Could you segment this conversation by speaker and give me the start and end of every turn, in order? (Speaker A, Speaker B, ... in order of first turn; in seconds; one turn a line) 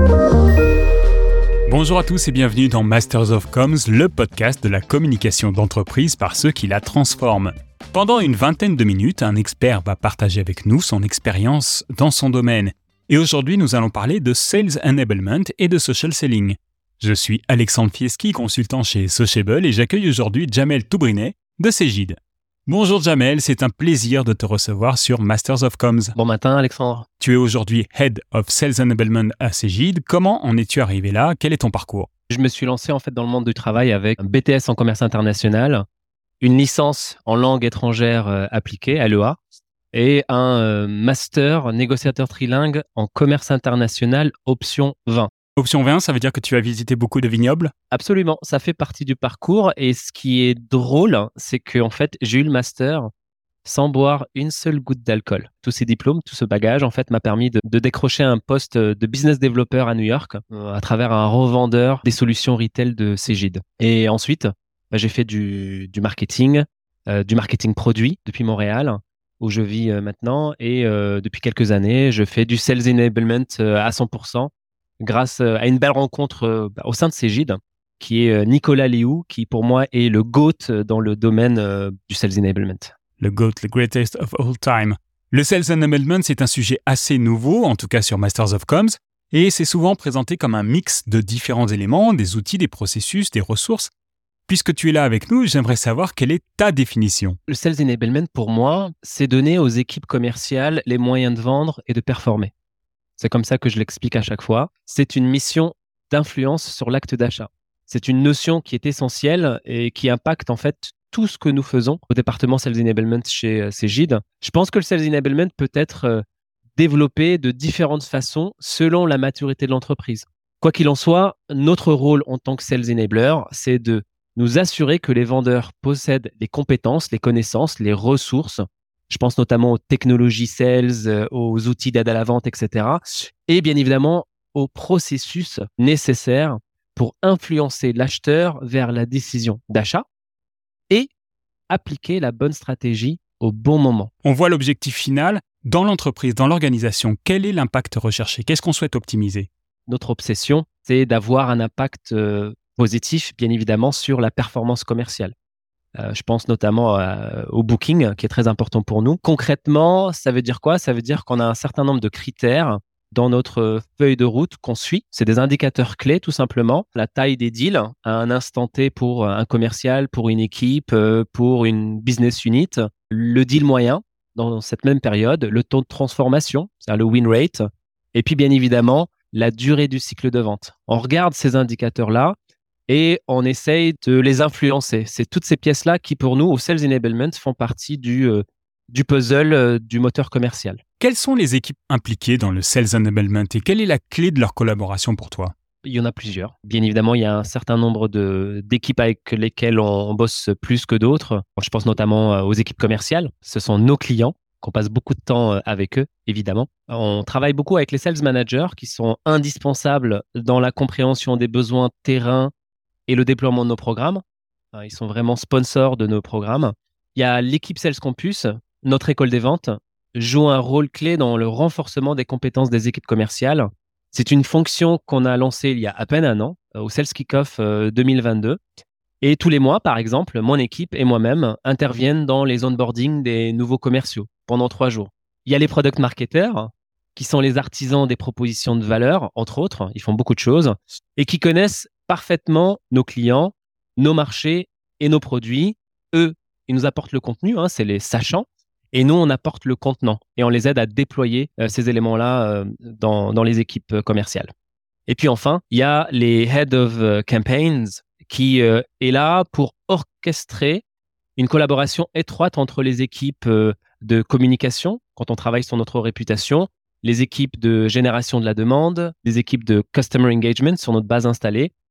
Speaker A: 1.7-26.1
Speaker B: 26.2-27.1
Speaker A: 27.2-32.1
Speaker B: 32.3-35.8
Speaker B: 36.4-39.4
Speaker B: 39.9-45.3
Speaker A: 45.6-47.7
Speaker B: 47.9-53.1
Speaker B: 53.6-74.5
Speaker B: 75.0-82.9
Speaker A: 83.2-93.9
Speaker A: 94.5-97.4
Speaker B: 97.5-102.5
Speaker B: 103.2-116.2
Speaker B: 116.8-140.0
Speaker B: 141.7-144.1
Speaker A: 144.2-149.5
Speaker B: 149.9-155.3
Speaker B: 156.0-177.6
Speaker B: 178.1-182.4
Speaker B: 182.9-190.8
Speaker A: 191.0-195.5
Speaker B: 195.8-212.5
Speaker B: 213.1-214.2
Speaker B: 214.7-228.6
Speaker B: 229.2-254.5
Speaker B: 255.1-260.8
Speaker B: 261.4-271.7